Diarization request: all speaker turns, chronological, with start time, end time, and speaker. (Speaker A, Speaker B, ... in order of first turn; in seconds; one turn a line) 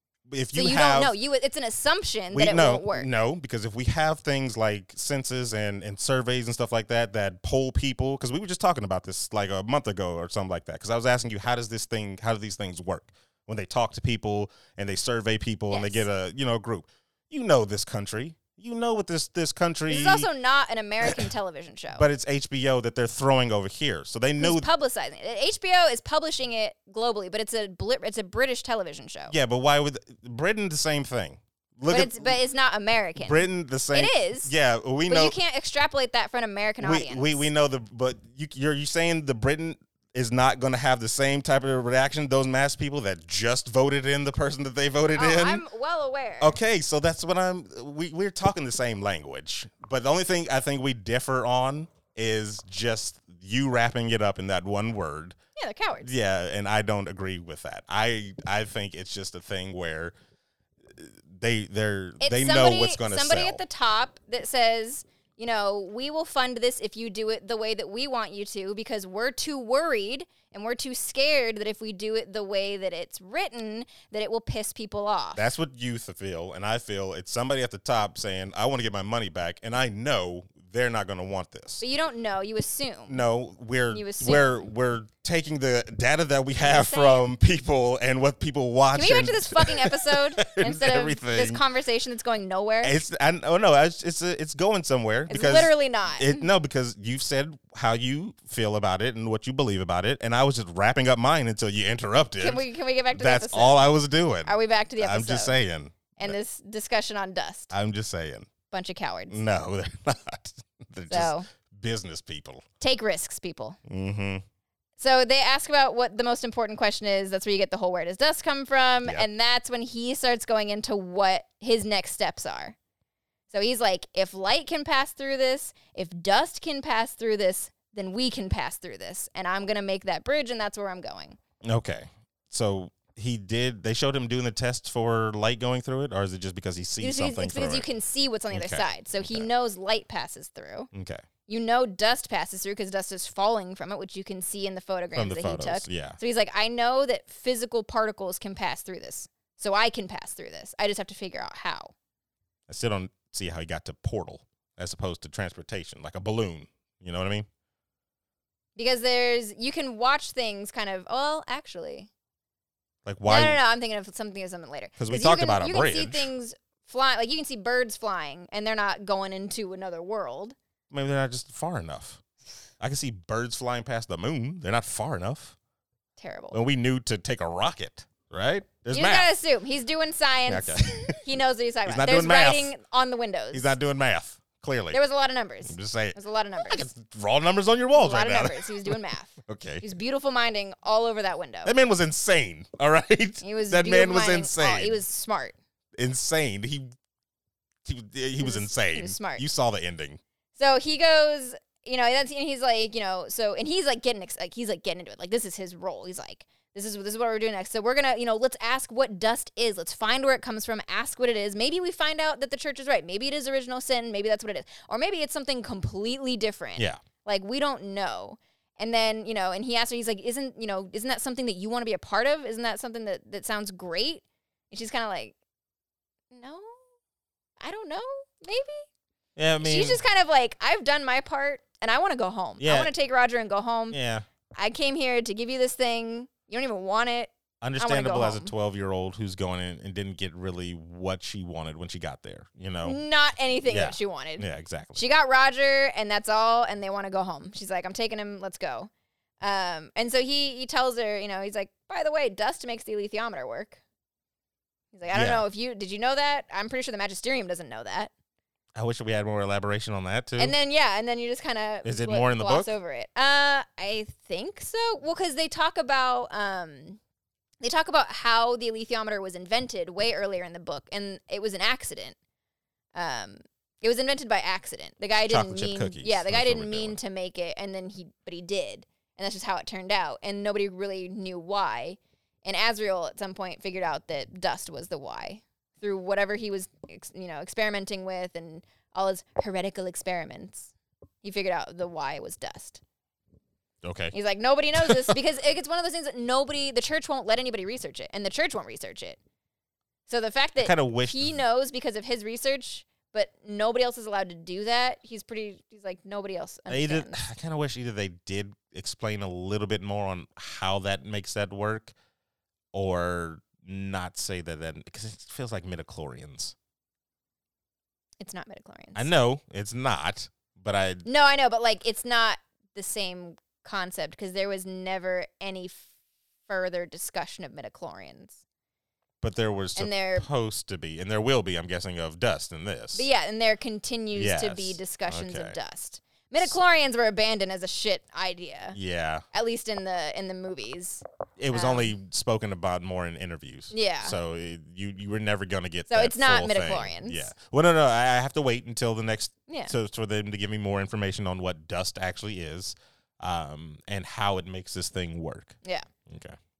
Speaker A: 0.3-1.1
Speaker B: 0.5-3.1
Speaker A: 2.3-20.3
Speaker B: 15.7-16.1
Speaker B: 19.9-22.1
Speaker A: 21.0-21.3
Speaker A: 21.9-24.7
Speaker B: 24.4-29.3
Speaker A: 29.3-32.4
Speaker B: 31.9-34.5
Speaker A: 33.2-35.4
Speaker B: 35.1-37.5
Speaker A: 36.8-45.6
Speaker B: 45.1-46.6
Speaker A: 46.4-55.4
Speaker B: 55.6-56.1
Speaker A: 56.0-60.1
Speaker A: 60.9-63.6
Speaker B: 62.2-75.5
Speaker A: 75.3-81.8
Speaker B: 81.8-83.2
Speaker A: 83.1-91.6
Speaker B: 83.9-84.5
Speaker B: 86.6-87.3
Speaker B: 88.9-93.0
Speaker A: 92.8-106.3
Speaker B: 95.3-96.5
Speaker B: 102.4-103.9
Speaker B: 104.4-105.6
Speaker B: 106.2-107.7
Speaker A: 107.7-108.5
Speaker B: 108.7-109.4
Speaker A: 109.3-112.6
Speaker B: 111.1-111.5
Speaker B: 112.8-113.8
Speaker A: 113.9-114.4
Speaker B: 115.0-122.8
Speaker B: 123.5-131.4
Speaker A: 131.6-137.9
Speaker B: 137.0-140.9
Speaker A: 138.5-139.5
Speaker A: 140.9-141.2
Speaker B: 141.5-151.9
Speaker A: 145.1-146.2
Speaker A: 152.7-157.5
Speaker B: 158.8-162.1
Speaker A: 163.1-163.6
Speaker B: 163.3-170.6
Speaker A: 165.0-166.3
Speaker A: 170.9-172.2
Speaker A: 172.8-175.6
Speaker B: 176.2-176.6
Speaker A: 176.5-179.3
Speaker B: 178.9-183.8
Speaker A: 180.5-181.2
Speaker A: 181.8-182.7
Speaker A: 183.5-185.0
Speaker B: 184.9-186.9
Speaker A: 185.6-189.8
Speaker B: 187.9-191.7
Speaker A: 191.6-195.0
Speaker B: 193.4-195.5
Speaker A: 196.0-196.9
Speaker A: 197.8-200.2
Speaker B: 198.4-199.4
Speaker B: 200.6-225.3
Speaker B: 226.3-226.8
Speaker B: 227.6-228.8
Speaker A: 229.3-230.0
Speaker B: 229.6-234.0
Speaker A: 232.6-232.9
Speaker A: 233.9-234.2
Speaker B: 234.6-238.5
Speaker A: 237.6-243.0
Speaker B: 242.8-248.9
Speaker A: 243.7-245.0
Speaker B: 249.4-253.8
Speaker B: 254.9-258.1
Speaker A: 255.1-255.4
Speaker A: 258.7-260.5
Speaker B: 260.4-267.0
Speaker A: 261.8-262.7
Speaker B: 267.6-272.1
Speaker B: 272.9-290.7
Speaker A: 275.2-277.0
Speaker B: 291.2-292.8
Speaker A: 293.8-294.1
Speaker B: 294.1-299.2
Speaker A: 294.8-295.1
Speaker B: 300.1-307.2
Speaker A: 300.6-301.4
Speaker A: 306.7-311.9
Speaker A: 312.7-316.5
Speaker B: 318.2-319.1
Speaker A: 318.9-321.1
Speaker B: 321.0-325.9
Speaker B: 326.5-328.4
Speaker A: 329.2-333.1
Speaker B: 329.7-330.2
Speaker B: 332.9-338.8
Speaker A: 334.1-335.6
Speaker A: 338.7-339.2
Speaker B: 339.3-341.9
Speaker A: 341.4-356.4
Speaker B: 343.7-344.1
Speaker B: 345.9-347.3
Speaker B: 349.5-349.7